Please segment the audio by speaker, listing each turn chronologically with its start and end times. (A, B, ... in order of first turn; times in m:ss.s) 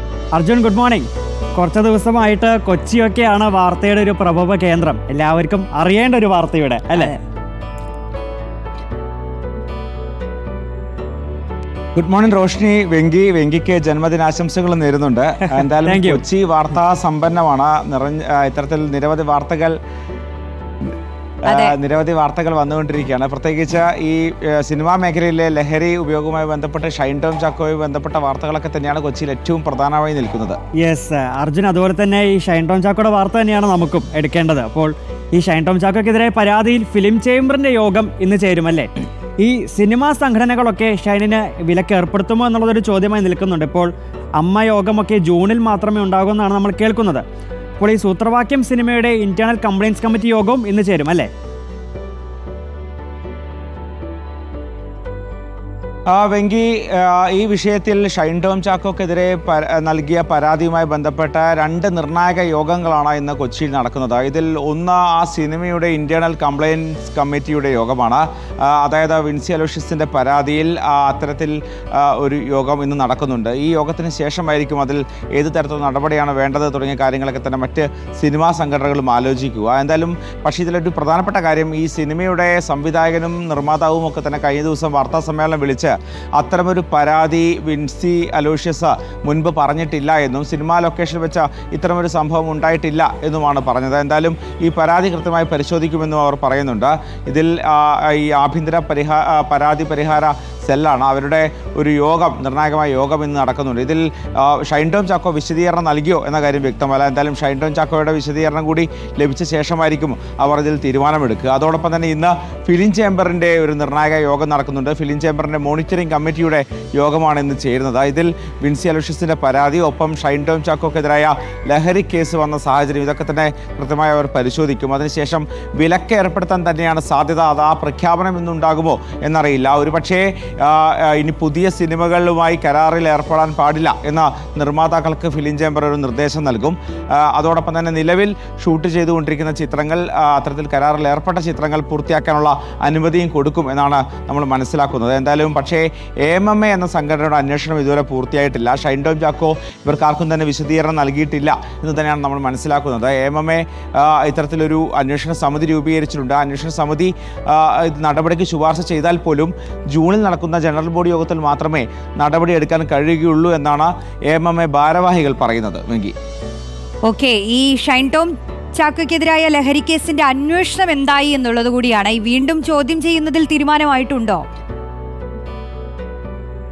0:00.3-0:07.1 A
0:12.0-0:19.8 B
0:15.8-0:16.2 A
0:21.4-0:21.8 C
0:21.4-0:30.6 B
0:30.8-0:47.2 A
0:47.8-0:51.3 A
0:56.1-2:46.1 B
2:47.0-2:54.4 C